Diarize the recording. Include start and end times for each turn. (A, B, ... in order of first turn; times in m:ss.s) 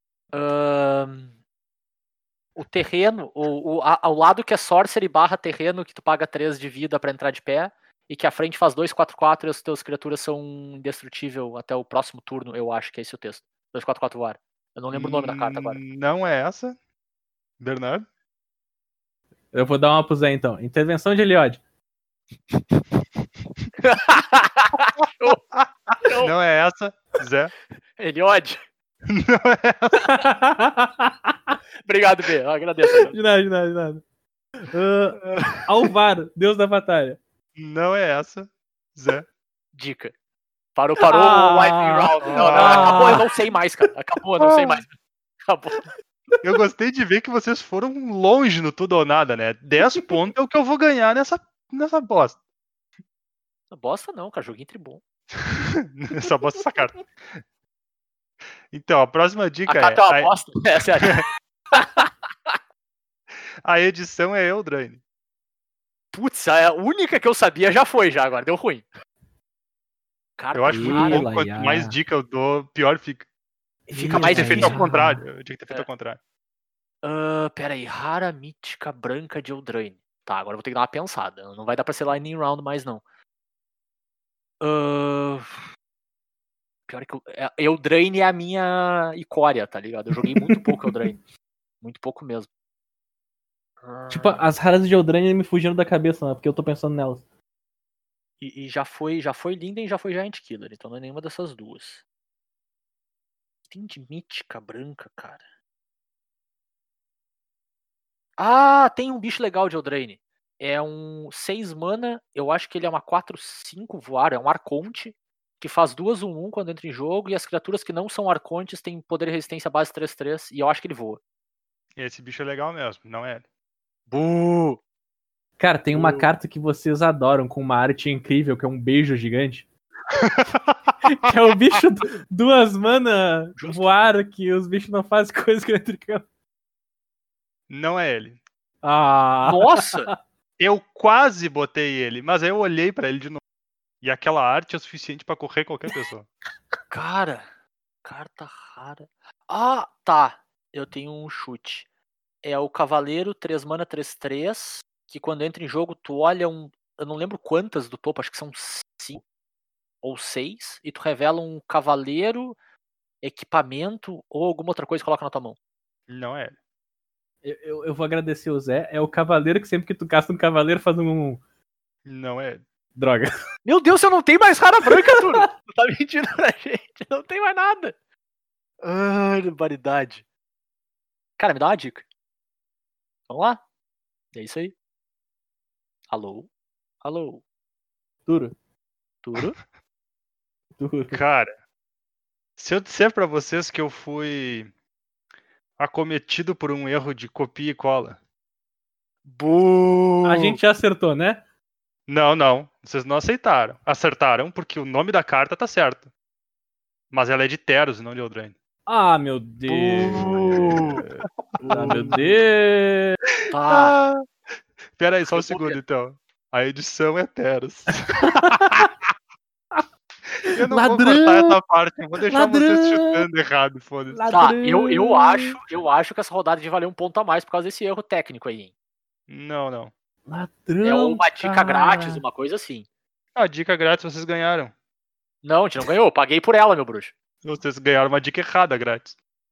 0:00.3-0:01.3 A
0:02.6-0:15.8 A
0:14.9-0:16.8 B
0:17.6-0:18.0 B
0:19.5-0:21.6 C
0:23.8-0:25.4 A
0:25.5-0:27.5 B
0:26.0-0:26.3 A
0:28.0-0:28.6 A
0:29.1-0:30.1 B
0:30.0-0:31.6 C
0:31.8-0:33.2 A
0:33.1-0:34.0 C
0:34.6-0:37.2 C
0:35.2-0:35.7 A
0:37.6-0:39.3 B
0:39.7-0:40.1 A
0:40.8-0:44.9 A
0:41.0-0:43.3 C
0:42.2-0:43.2 B
0:44.4-0:44.8 B
0:45.5-0:45.9 A
0:46.4-0:52.4 B
0:53.7-0:55.0 A
0:55.4-0:57.4 B
0:58.7-1:00.3 B
0:59.6-1:02.5 A
1:03.6-1:05.0 B
1:06.1-1:08.8 A
1:10.4-1:11.2 A
1:10.5-1:13.3 B
1:10.7-1:12.0 C
1:13.9-1:15.2 C
1:13.9-1:14.8 A
1:14.1-1:16.2 B
1:17.0-1:23.0 A
1:24.6-1:25.6 A
1:26.9-1:31.2 A
1:30.4-1:31.1 C
1:31.8-1:32.5 A
1:33.8-1:34.4 A
1:34.1-1:37.2 C
1:38.4-1:42.0 A
1:43.7-1:45.4 A
1:48.4-2:01.2 A
2:02.0-2:03.4 B
2:04.1-2:04.8 A
2:05.6-2:09.7 C
2:05.9-2:06.3 A
2:10.1-2:10.9 B
2:11.0-2:16.2 C
2:13.6-2:13.9 A
2:17.7-2:18.4 B
2:18.8-2:20.1 C
2:19.4-2:20.1 A
2:20.6-2:23.4 B
2:24.0-2:26.3 B
2:26.9-2:27.4 A
2:28.0-2:31.9 A
2:32.4-2:39.2 A
2:40.0-2:42.6 A
2:43.2-2:45.6 A
2:46.1-2:46.6 B
2:47.4-2:51.4 C
2:52.0-2:52.6 B
2:53.0-2:53.3 C
2:53.6-2:57.9 A
2:54.9-2:55.5 C
2:58.8-3:00.2 A
3:01.4-3:02.0 A
3:03.3-3:03.6 A
3:04.3-3:04.7 A
3:06.1-3:06.5 A
3:07.0-3:07.4 A
3:08.3-3:08.5 C
3:09.2-3:09.6 A
3:10.8-3:11.2 C
3:11.1-3:11.5 B
3:12.6-3:14.7 B
3:15.8-3:18.2 B
3:19.2-3:20.6 A
3:20.2-3:21.4 C
3:22.1-3:26.1 B
3:27.1-3:28.5 B
3:28.9-3:33.2 C
3:29.8-3:31.0 A
3:30.1-3:31.0 B
3:31.6-3:32.2 B
3:31.7-3:32.2 A
3:33.5-3:34.0 A
3:33.6-3:34.2 B
3:35.0-3:38.9 B
3:35.3-3:35.8 A
3:38.2-3:38.9 C
3:40.4-3:41.6 C
3:40.5-3:44.2 B
3:42.3-3:43.3 C
3:44.1-3:45.6 C
3:44.3-3:48.7 A
3:49.3-3:49.9 B
3:50.3-3:52.2 C
3:50.8-3:52.9 A
3:53.3-3:54.7 B
3:55.4-3:57.1 A
3:57.4-3:59.2 B